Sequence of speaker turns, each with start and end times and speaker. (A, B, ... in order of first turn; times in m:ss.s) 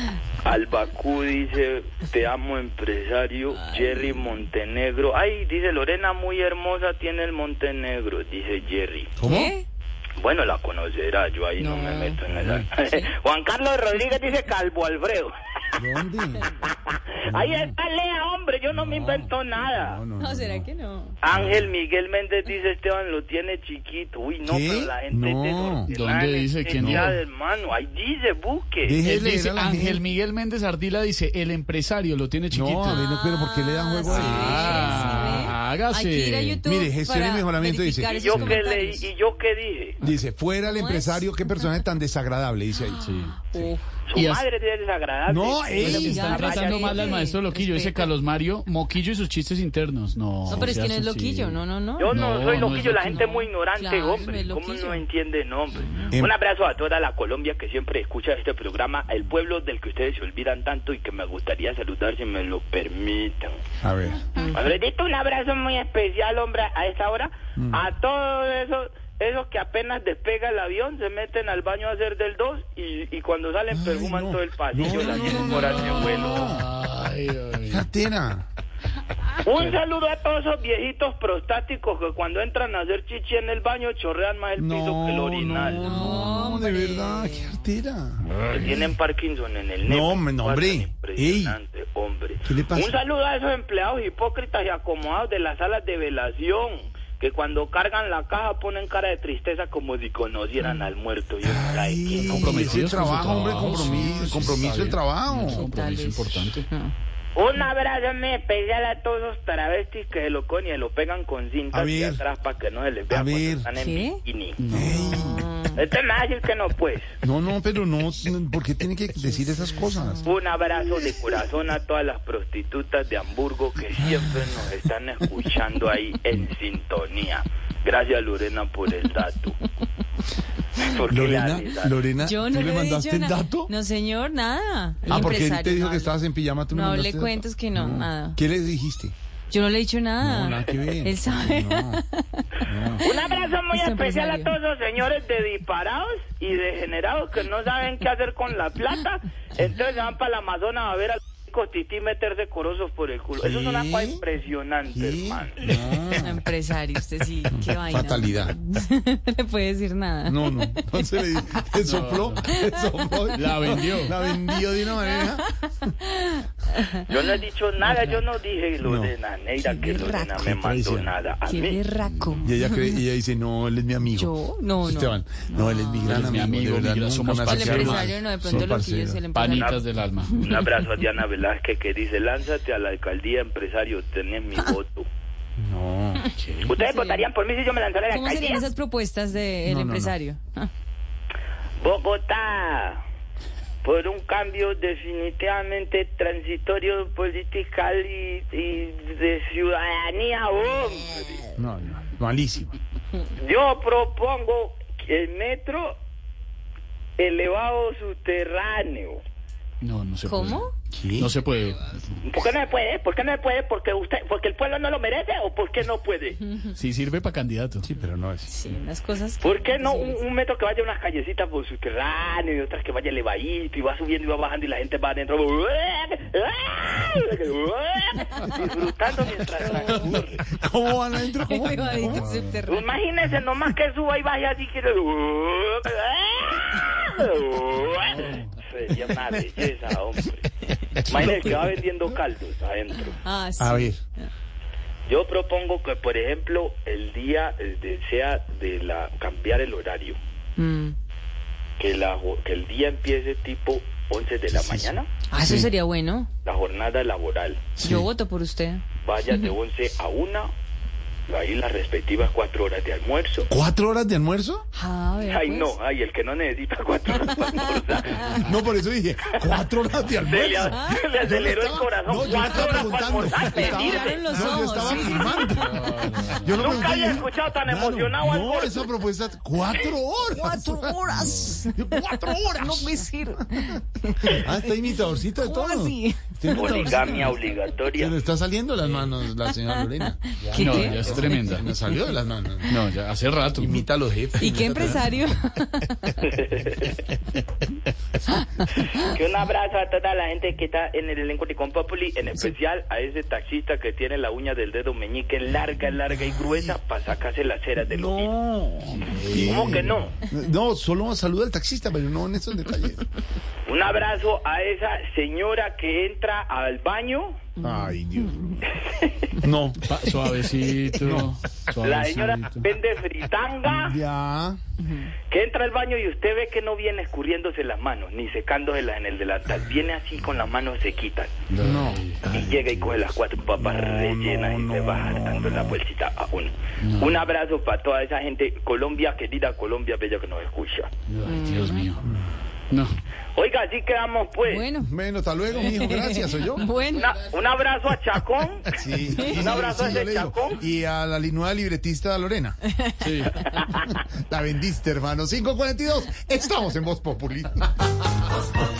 0:00.4-0:09.1 A
0:03.6-0:04.0 B
0:09.2-0:09.6 C
0:09.2-0:09.6 B
0:10.2-0:15.3 A
0:11.6-0:12.2 B
0:12.3-0:12.6 C
0:12.7-0:13.1 B
0:15.8-0:16.5 C
0:16.8-0:20.0 A
0:17.3-0:17.8 C
0:18.7-0:20.7 C
0:20.2-0:21.2 B
0:21.2-0:29.0 A
0:21.2-0:21.7 C
0:24.4-0:25.9 C
0:25.9-0:27.2 D
0:26.8-0:27.1 C
0:28.8-0:30.0 C
0:29.0-0:33.1 D
0:32.5-0:35.5 C
0:33.1-0:39.0 B
0:34.1-0:36.6 D
0:36.6-0:38.6 C
0:38.1-0:40.0 A
0:40.0-0:43.1 C
0:40.6-0:41.8 B
0:42.8-0:43.8 B
0:43.0-0:44.4 D
0:44.1-0:47.3 A
0:45.2-0:46.5 C
0:45.8-0:48.1 B
0:46.1-0:53.2 D
0:50.5-0:52.1 B
0:52.0-1:03.6 A
0:53.2-0:55.0 B
1:03.8-1:04.2 C
1:04.5-1:16.6 A
1:07.6-1:07.8 C
1:13.7-1:16.7 C
1:15.2-1:17.8 D
1:17.7-1:18.4 C
1:19.4-1:26.1 A
1:24.6-1:28.7 C
1:25.8-1:27.6 B
1:28.5-1:42.8 A
1:29.8-1:31.6 C
1:32.4-1:33.0 C
1:41.4-1:45.7 C
1:42.2-1:46.7 D
1:43.9-1:44.3 B
1:45.4-1:46.9 B
1:47.3-1:54.6 A
1:51.7-1:52.2 C
1:53.1-1:53.7 C
1:53.7-1:54.2 B
1:54.6-1:54.9 D
1:54.7-1:55.5 C
1:54.9-1:55.8 B
1:55.8-1:57.1 A
1:57.2-2:00.2 C
1:59.2-2:00.4 B
2:00.2-2:09.6 A
2:04.0-2:04.7 C
2:10.8-2:12.0 A
2:11.1-2:13.7 C
2:12.2-2:16.2 B
2:15.1-2:19.1 C
2:16.7-2:18.4 B
2:19.5-2:22.4 B
2:20.2-2:22.0 C
2:22.6-2:23.0 C
2:23.0-2:35.6 A
2:23.1-2:24.5 B
2:33.4-2:34.2 C
2:34.9-2:36.4 C
2:36.2-2:41.7 B
2:37.5-2:38.6 C
2:40.2-2:45.5 C
2:41.8-2:42.4 D
2:42.4-2:42.8 B
2:43.3-2:44.1 D
2:44.6-2:46.8 B
2:47.1-2:51.8 A
2:48.8-2:49.1 C
2:49.6-2:50.4 B
2:50.4-2:51.1 C
2:51.4-2:53.0 B
2:52.0-2:52.4 D
2:52.4-2:59.2 C
2:54.1-2:56.2 B
2:56.0-2:58.7 D
2:57.5-3:00.6 B
2:59.3-3:00.3 D
2:59.5-3:05.1 A
3:05.6-3:06.2 C
3:06.4-3:06.7 D
3:06.6-3:08.7 A
3:06.8-3:07.3 B
3:08.1-3:10.7 B
3:09.6-3:10.2 C
3:11.8-3:13.0 A
3:13.8-3:21.5 A
3:21.6-3:22.7 C
3:23.4-3:26.0 A
3:27.2-3:29.2 A
3:29.8-3:30.7 D
3:30.2-3:30.7 B
3:30.9-3:31.3 C
3:31.2-3:31.8 D
3:32.2-3:36.4 A
3:36.4-3:36.7 B
3:36.7-3:37.9 D
3:37.8-3:38.5 C
3:38.4-3:40.2 B
3:39.4-3:50.4 A
3:49.7-3:50.0 B
3:49.8-3:52.3 C
3:51.4-3:52.9 B
3:52.7-4:00.5 A
3:58.1-3:58.5 D
4:01.0-4:01.5 B
4:01.0-4:03.2 A
4:01.1-4:01.7 C
4:03.2-4:04.3 B
4:03.6-4:04.0 C
4:05.1-4:10.2 A
4:10.6-4:10.9 B
4:11.8-4:15.1 A
4:14.5-4:15.7 C
4:15.3-4:16.3 B
4:16.4-4:17.7 A
4:17.8-4:18.1 C
4:17.8-4:19.5 B
4:19.0-4:20.5 A
4:21.3-4:23.5 A
4:23.5-4:24.6 C
4:24.7-4:25.8 B
4:25.2-4:28.4 A
4:27.5-4:28.5 B
4:28.3-4:43.7 C
4:30.2-4:35.4 A
4:30.7-4:31.1 B
4:32.3-4:35.7 B
4:35.6-4:36.6 D
4:36.5-4:38.9 A
4:40.3-4:47.1 B
4:41.2-4:41.5 D
4:44.3-4:47.4 C
4:46.5-4:48.2 A
4:47.9-4:52.8 C
4:48.8-4:49.1 D
4:49.5-4:52.2 B
4:50.6-4:51.7 D
4:52.7-4:53.8 D
4:53.6-4:55.2 C
4:54.4-4:56.3 B
4:56.3-4:56.9 A
4:58.8-5:08.3 A
5:06.4-5:06.8 C
5:07.8-5:13.0 C
5:08.9-5:09.9 D
5:09.4-5:10.1 A
5:13.6-5:17.4 A
5:17.6-5:18.3 B
5:17.6-5:18.7 C
5:18.9-5:19.2 A
5:19.4-5:19.8 C
5:19.8-5:22.6 D
5:20.9-5:21.4 C
5:21.8-5:24.0 A
5:23.6-5:24.6 C
5:24.8-5:25.1 B
5:25.3-5:31.3 A
5:31.5-5:32.2 D
5:31.6-5:32.1 C
5:32.2-5:40.9 A
5:33.6-5:35.8 C
5:36.8-5:37.2 D
5:41.1-5:42.0 D
5:41.2-5:41.9 B
5:42.0-5:42.3 C
5:42.7-5:43.0 D
5:43.3-5:44.7 A
5:44.4-5:44.9 B
5:44.8-5:46.8 C
5:45.6-5:47.1 B
5:46.9-5:50.6 A
5:48.7-5:52.6 C
5:49.2-5:49.6 B
5:52.8-5:53.8 B
5:53.0-5:53.3 D
5:53.9-5:57.6 C